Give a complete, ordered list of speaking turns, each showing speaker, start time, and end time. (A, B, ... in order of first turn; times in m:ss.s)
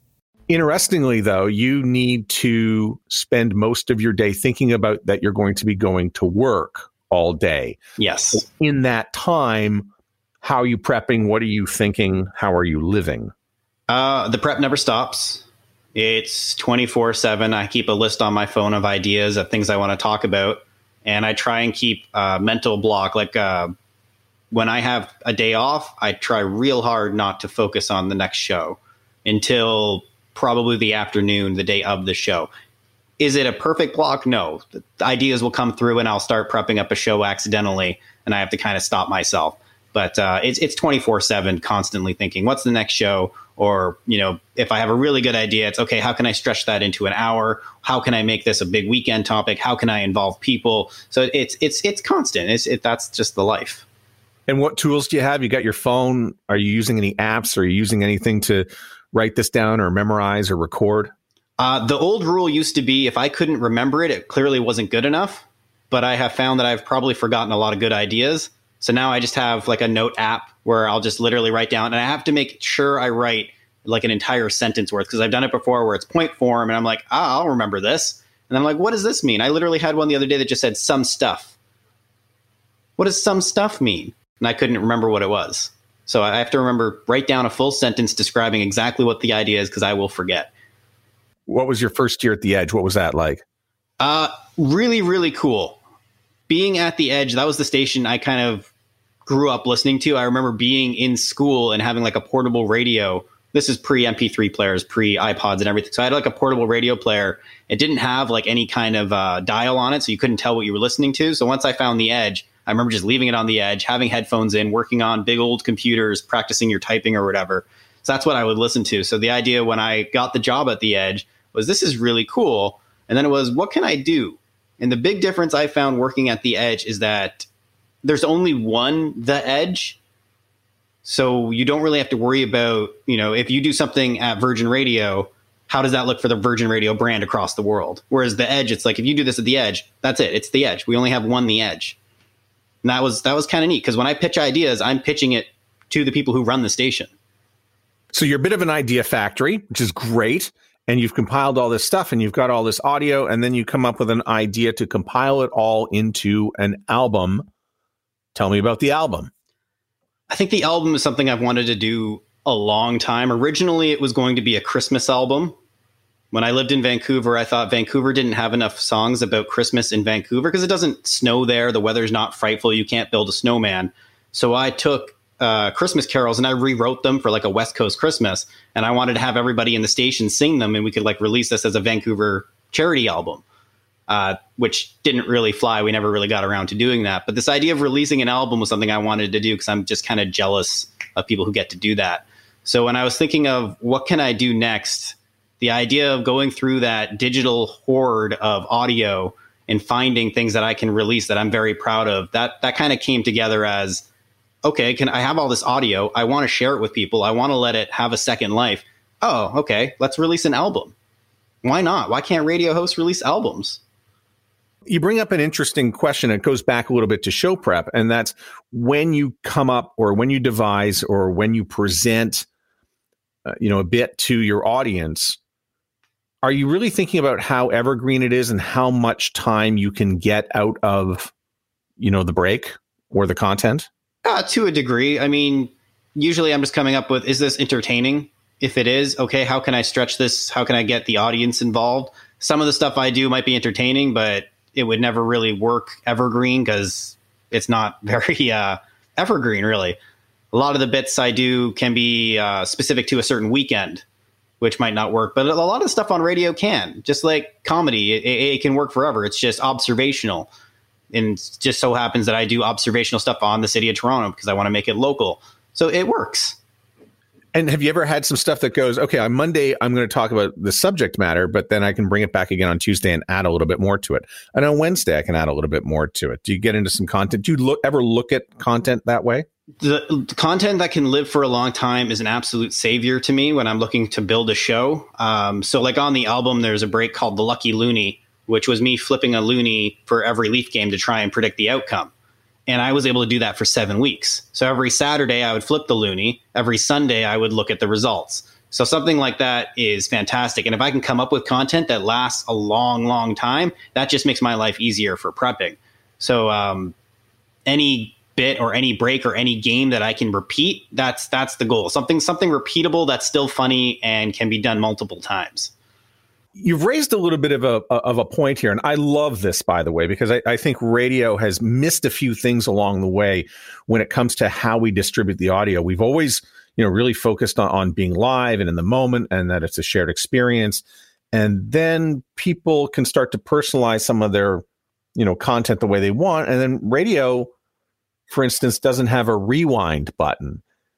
0:00.5-0:07.8 A
0:08.0-0:08.4 B
0:08.3-0:09.9 A
0:10.4-0:13.3 A
0:13.9-0:23.7 B
0:24.5-0:32.5 B
0:33.2-0:53.8 B
0:54.5-1:01.1 A
1:01.6-1:21.6 B
1:23.0-1:30.5 B
1:31.5-1:33.4 A
1:34.0-1:35.8 B
1:36.5-1:38.7 B
1:39.2-2:07.5 B
2:08.0-2:10.0 B
2:11.0-2:22.0 B
2:22.8-2:27.1 B
2:28.1-2:37.5 A
2:38.3-2:39.3 A
2:40.3-2:45.6 B
2:46.3-3:03.4 B
3:04.1-3:24.0 B
3:24.6-3:30.9 B
3:31.6-3:33.8 B
3:34.9-3:42.5 A
3:43.5-3:45.4 A
3:46.4-3:51.3 A
3:52.0-3:53.9 A
3:54.2-4:10.0 B
4:10.5-4:14.0 B
4:14.6-4:20.5 B
4:21.1-4:26.6 B
4:27.5-4:39.5 A
4:39.8-4:52.1 B
4:52.7-5:07.0 B
5:07.7-5:15.7 B
5:16.6-5:34.6 A
5:35.2-5:37.5 A
5:38.3-5:40.6 A